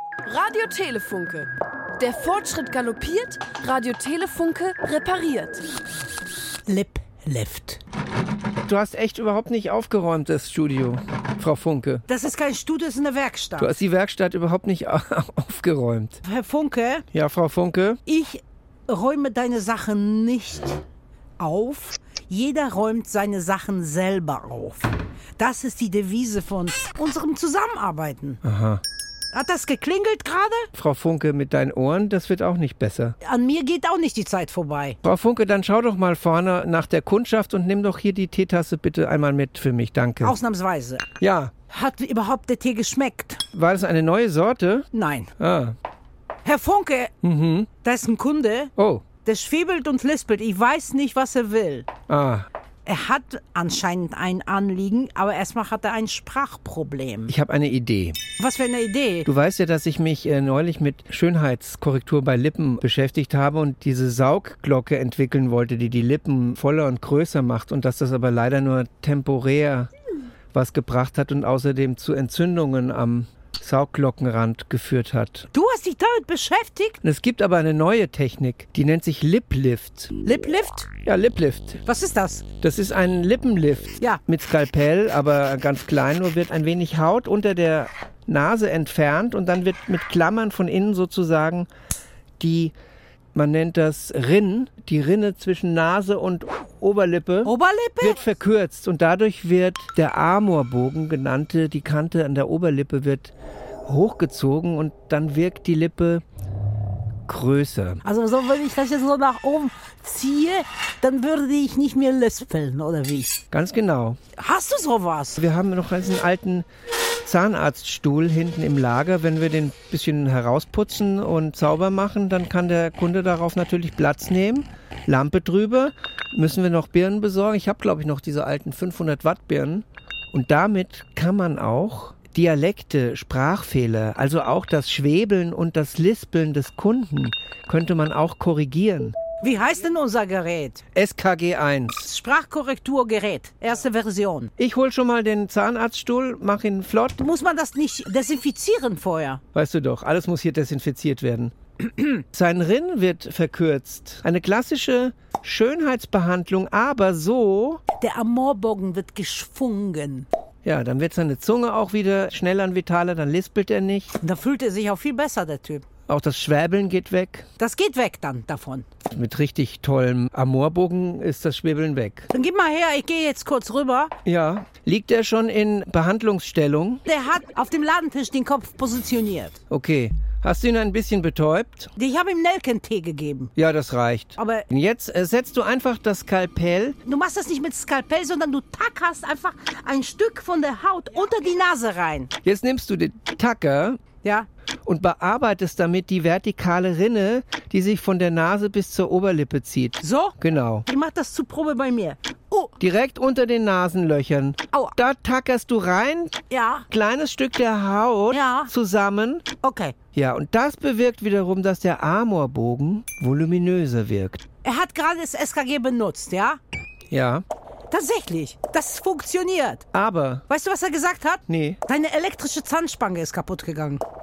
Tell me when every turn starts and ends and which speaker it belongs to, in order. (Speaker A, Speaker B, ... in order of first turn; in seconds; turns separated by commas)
Speaker A: 0.2-5.6, Speaker B: 6.7-7.8, Speaker C: 8.6-12.0, Speaker B: 12.1-13.7, Speaker C: 13.6-16.2, Speaker B: 16.2-17.0, Speaker C: 17.1-18.0, Speaker B: 18.1-20.8, Speaker B: 21.4-28.4, Speaker C: 28.4-28.8, Speaker B: 29.3-30.7, Speaker C: 30.7-33.1, Speaker B: 33.2-35.0, Speaker C: 35.0-40.4, Speaker B: 40.2-41.0, Speaker C: 41.2-41.5, Speaker B: 41.7-43.4, Speaker C: 43.5-44.9, Speaker B: 44.9-45.3, Speaker C: 45.4-45.7, Speaker B: 46.4-47.1, Speaker C: 47.2-47.7, Speaker B: 47.8-48.7, Speaker C: 48.8-49.0, Speaker B: 49.2-51.9, Speaker C: 52.1-52.5, Speaker B: 52.9-57.3, Speaker C: 57.3-58.2, Speaker B: 58.4-59.3, Speaker C: 59.2-69.9, Speaker C: 70.5-75.5, Speaker B: 75.5-77.0, Speaker C: 77.0-80.1, Speaker B: 80.2-80.9, Speaker C: 81.0-81.8, Speaker B: 81.8-82.5, Speaker C: 82.6-91.7, Speaker C: 92.4-92.7, Speaker C: 93.3-103.3, Speaker B: 97.4-98.2, Speaker C: 103.8-106.2, Speaker C: 107.3-108.0, Speaker B: 108.0-113.3, Speaker C: 113.5-114.2, Speaker B: 114.4-115.4, Speaker C: 115.3-116.7, Speaker C: 117.2-139.2, Speaker B: 139.4-140.8, Speaker C: 140.9-142.1, Speaker B: 142.0-144.5, Speaker C: 144.6-147.2, Speaker B: 147.2-149.4, Speaker C: 149.5-157.8, Speaker B: 158.0-160.3, Speaker C: 160.6-164.2, Speaker B: 164.2-165.8, Speaker C: 166.1-167.5, Speaker B: 167.6-168.8, Speaker C: 169.1-172.3, Speaker B: 172.3-174.1, Speaker C: 174.2-177.0, Speaker B: 177.1-179.6, Speaker C: 179.7-181.9, Speaker B: 181.9-183.5, Speaker C: 183.6-187.0, Speaker B: 184.4-184.7, Speaker B: 187.0-192.3, Speaker C: 192.4-194.0, Speaker C: 194.8-200.8, Speaker B: 200.0-202.7, Speaker C: 202.8-206.3, Speaker B: 206.5-206.8, Speaker C: 206.9-209.4, Speaker B: 208.3-208.7, Speaker B: 209.6-209.9, Speaker C: 210.1-214.4, Speaker B: 214.6-216.6, Speaker C: 217.1-217.4, Speaker B: 217.9-219.8, Speaker C: 219.9-220.4, Speaker B: 220.5-224.0, Speaker C: 221.5-221.8